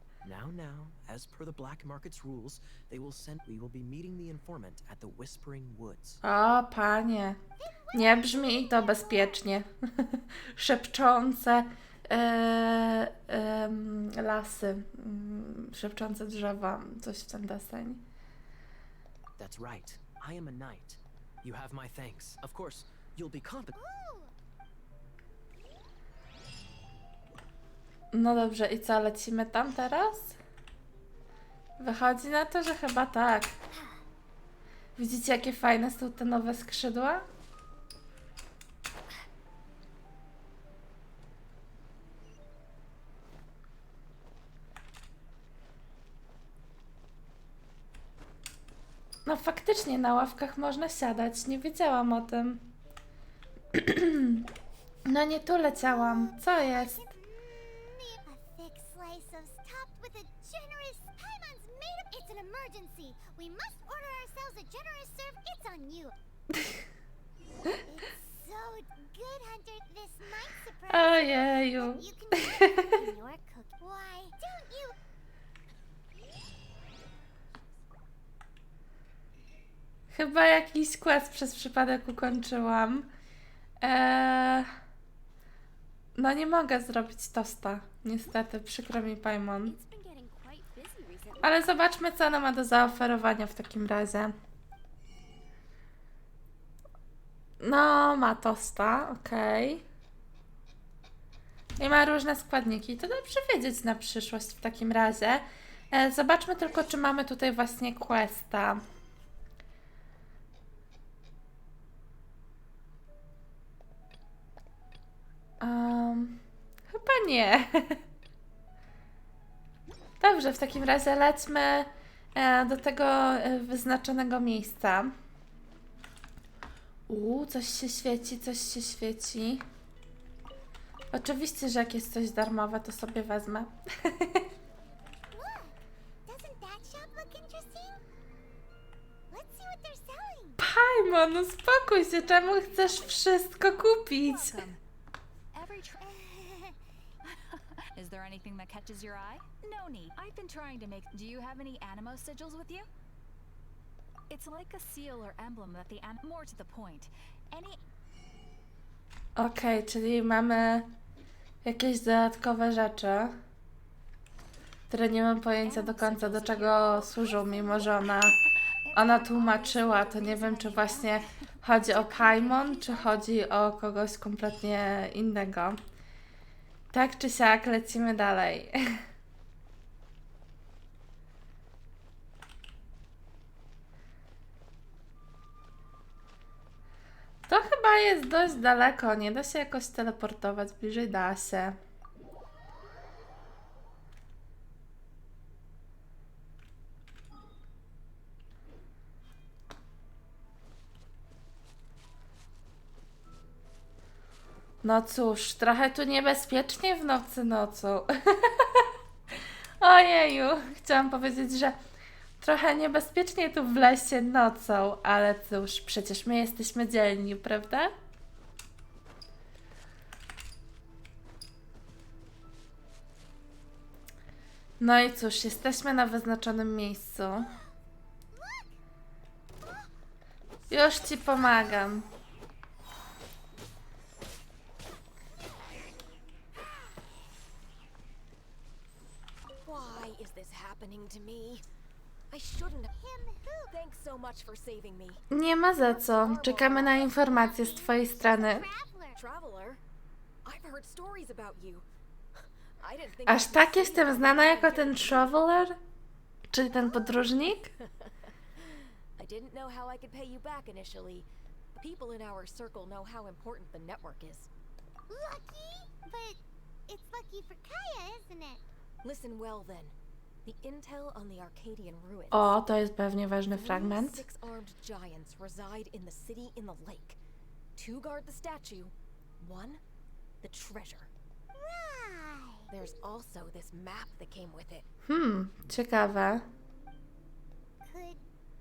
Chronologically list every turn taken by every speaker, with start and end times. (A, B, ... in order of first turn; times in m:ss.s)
0:00.2-0:06.2 A
0:06.2-0:07.4 B
0:07.6-0:09.5 C
0:07.9-0:18.0 B
0:19.4-0:23.8 A
0:23.8-0:24.3 C
0:28.1-0:30.4 B
0:31.8-0:33.5 B
0:33.7-0:34.0 C
0:35.0-0:37.2 B
0:49.2-0:52.6 B
0:53.7-0:54.5 B
0:55.0-0:57.0 B
0:55.7-1:06.1 C
1:07.9-1:15.0 C
1:10.9-1:12.9 B
1:20.1-1:23.1 B
1:23.8-1:24.7 B
1:26.2-1:29.8 B
1:29.6-1:31.6 D
1:31.4-1:34.3 B
1:37.6-1:39.8 B
1:41.8-1:48.8 B
1:55.6-1:58.0 B
2:00.2-2:05.1 B
2:07.1-2:09.6 B
2:11.1-2:14.5 B
2:15.3-2:18.0 C
2:19.3-2:20.6 C
2:20.6-2:24.6 B
2:22.6-2:24.8 E
2:25.5-2:26.2 E
2:26.1-2:26.8 C
2:27.3-2:32.9 E
2:34.3-2:37.8 E
2:39.4-2:40.9 B
2:41.6-2:43.4 B
2:44.9-2:48.4 B
2:45.6-2:46.7 E
2:46.8-2:47.4 D
2:47.8-2:53.2 E
2:48.9-2:55.8 B
2:56.9-2:58.8 B
3:07.5-3:11.8 B
3:24.8-3:28.9 B
3:29.8-3:31.8 B
3:32.4-3:37.9 B
3:44.8-3:47.5 B
3:48.3-3:48.8 C
3:49.6-3:49.9 C
3:50.7-3:52.1 B
3:59.6-4:01.6 D
4:02.3-4:02.9 D
4:02.9-4:03.8 C
4:03.7-4:05.2 D
4:05.3-4:08.7 B
4:05.9-4:06.9 D
4:06.8-4:09.2 C
4:09.1-4:09.8 D
4:10.4-4:11.8 D
4:12.8-4:15.4 D
4:13.2-4:15.8 B
4:16.5-4:17.7 B
4:17.8-4:18.1 D
4:19.2-4:24.5 D
4:25.1-4:28.6 C
4:29.0-4:29.9 D
4:30.4-4:32.6 D
4:32.3-4:34.2 B
4:33.5-4:37.2 D
4:37.8-4:39.8 D
4:40.4-4:41.1 D
4:41.5-4:42.7 C
4:42.7-4:44.8 D
4:45.1-4:46.4 B
4:47.8-4:48.2 C